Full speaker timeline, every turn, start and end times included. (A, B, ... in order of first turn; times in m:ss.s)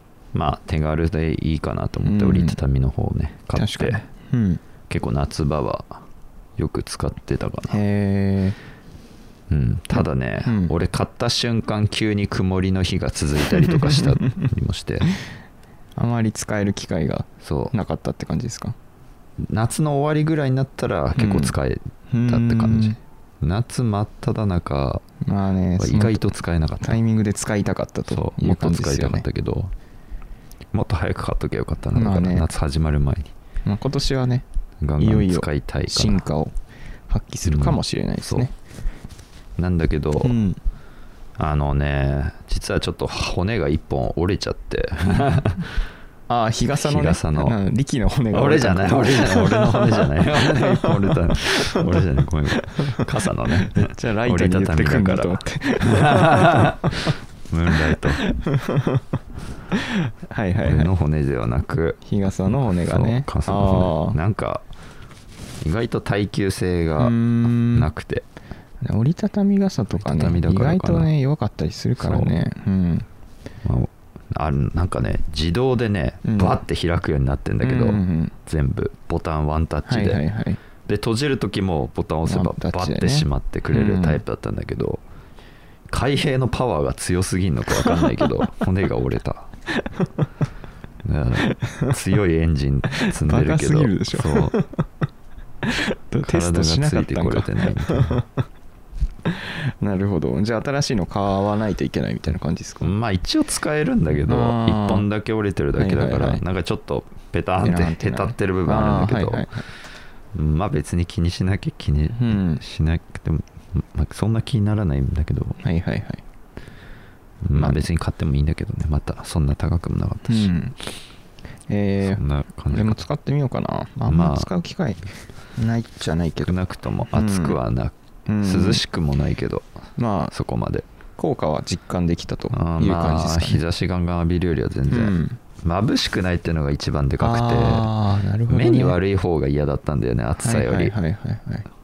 0:00.3-0:04.0 A
0:02.0-0:02.6 B
0:03.5-0:04.6 B
0:04.9-0:06.0 A
0:06.6-0:07.8 A
0:07.7-0:08.6 B
0:09.5-0:15.1 A
0:10.4-0:10.7 B
0:16.0-0:18.7 B
0:17.4-0:17.7 A
0:19.4-0:25.0 A
0:21.2-0:21.5 B
0:22.1-0:23.0 B
0:25.2-0:26.2 B
0:25.8-0:27.0 A
0:26.8-0:29.2 B
0:28.1-0:29.7 A
0:30.7-0:33.3 A
0:31.9-0:32.5 B
0:33.6-0:34.4 B
0:34.8-0:36.2 A
0:35.0-0:36.5 B
0:37.1-0:38.5 B
0:37.4-0:38.5 A
0:39.6-0:40.4 A
0:40.2-0:40.6 B
0:41.4-0:45.7 A
0:46.3-0:51.8 B
0:46.8-0:47.6 A
0:48.3-0:58.2 A
0:52.6-0:53.0 B
0:53.6-0:57.1 B
0:58.2-0:59.0 B
0:59.7-1:00.9 B
1:00.6-1:04.6 A
1:02.0-1:04.2 B
1:05.6-1:08.2 A
1:07.0-1:07.9 B
1:08.8-1:13.0 B
1:10.0-1:11.1 A
1:12.0-1:12.3 A
1:13.6-1:20.2 A
1:16.2-1:16.6 B
1:17.6-1:18.3 B
1:19.8-1:20.6 B
1:20.8-1:25.0 A
1:22.2-1:24.2 B
1:25.9-1:29.5 A
1:31.0-1:34.6 A
1:31.4-1:31.9 B
1:33.0-1:34.8 B
1:35.6-1:38.4 B
1:36.2-1:38.2 A
1:39.2-1:42.9 B
1:42.8-1:49.5 A
1:44.2-1:45.0 B
1:45.7-1:46.4 B
1:47.6-1:49.6 B
1:50.3-1:55.6 A
1:52.1-1:52.6 B
1:55.6-1:56.2 B
1:57.4-2:00.5 A
1:57.5-1:57.9 B
2:00.3-2:00.7 B
2:01.7-2:05.0 B
2:02.0-2:03.0 A
2:04.1-2:04.5 A
2:05.6-2:06.5 B
2:06.4-2:09.7 A
2:07.1-2:07.6 B
2:08.3-2:08.8 B
2:10.0-2:10.3 B
2:10.3-2:10.8 A
2:11.2-2:13.6 B
2:12.5-2:17.9 A
2:14.9-2:15.4 B
2:17.2-2:19.0 B
2:18.5-2:20.9 A
2:20.4-2:21.6 B